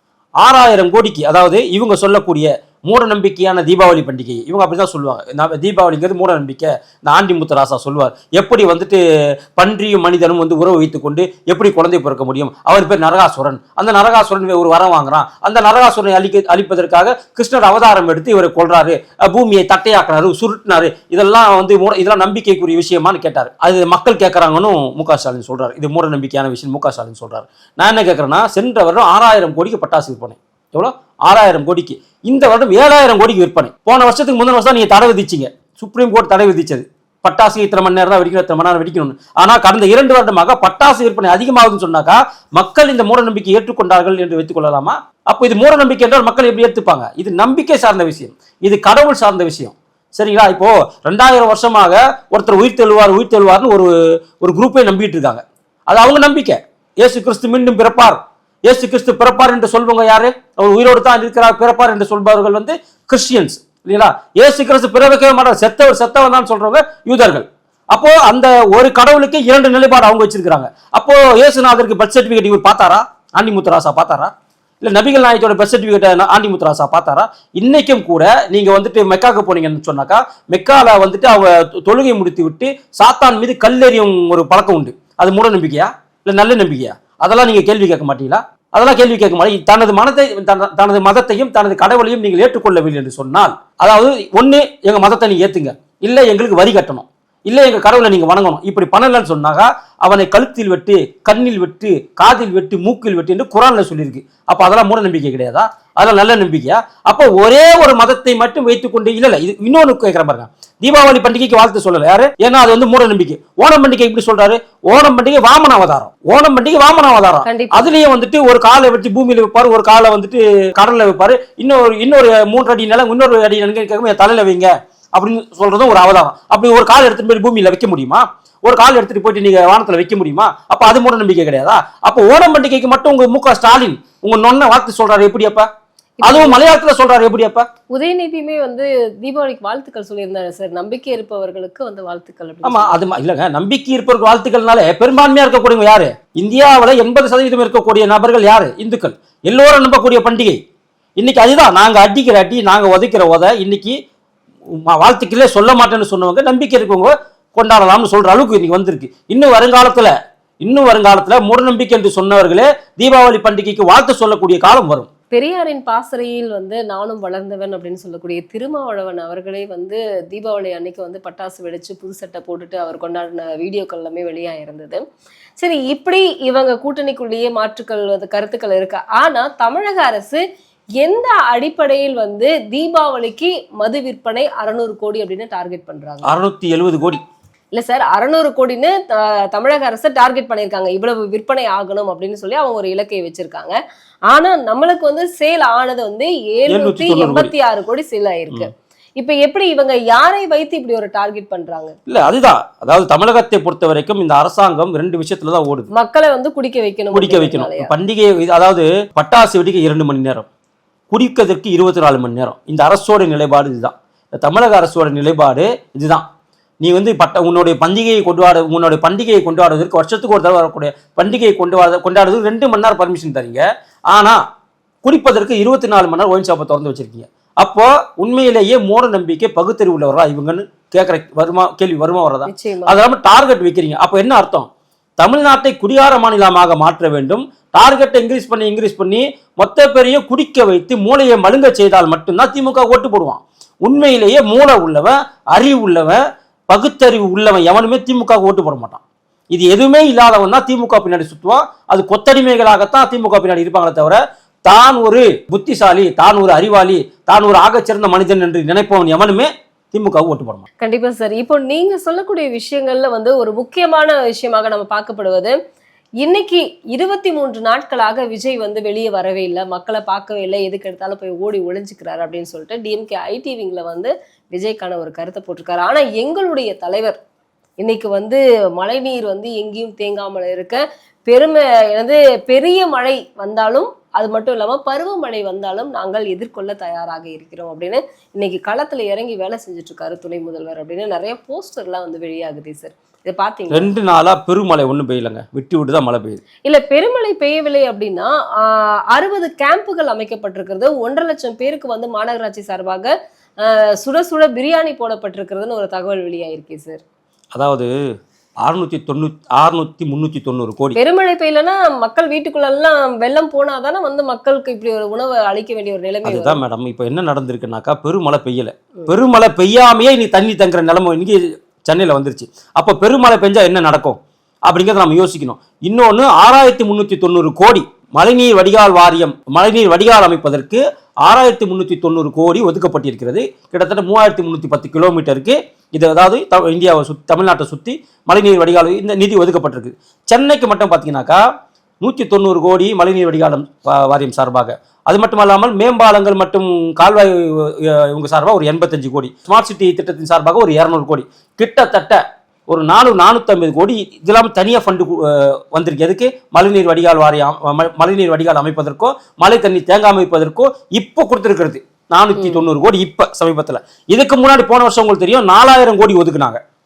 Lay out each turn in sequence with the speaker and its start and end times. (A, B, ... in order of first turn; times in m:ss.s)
0:00.4-0:09.0 A
0:09.6-2:15.7 A
1:57.4-1:57.9 B
2:16.2-2:16.7 B
2:16.2-2:17.7 A
2:17.9-2:22.9 B
2:22.6-2:30.6 A
2:31.2-2:34.0 A
2:34.9-2:45.1 A
2:45.3-2:55.0 B
2:55.6-3:00.4 B
3:01.0-3:06.3 B
3:06.2-3:07.2 A
3:07.7-3:13.8 B
3:14.3-3:22.0 B
3:16.7-3:17.5 A
3:22.1-3:25.9 A
3:25.9-3:27.9 B
3:27.1-3:30.5 A
3:31.1-3:36.2 A
3:36.8-3:44.4 A
3:45.0-3:54.7 A
3:52.4-3:53.0 B
3:55.2-4:09.0 A
4:09.5-4:20.6 A
4:20.8-4:25.6 B
4:26.2-4:37.2 B
4:37.8-4:53.9 B
4:53.7-4:56.4 A
4:56.6-5:03.1 B
5:03.6-5:07.0 B
5:07.5-5:07.9 A
5:08.6-5:11.0 A
5:10.9-5:16.6 B
5:16.2-5:41.4 A
5:42.0-6:06.6 A
6:02.4-6:02.6 B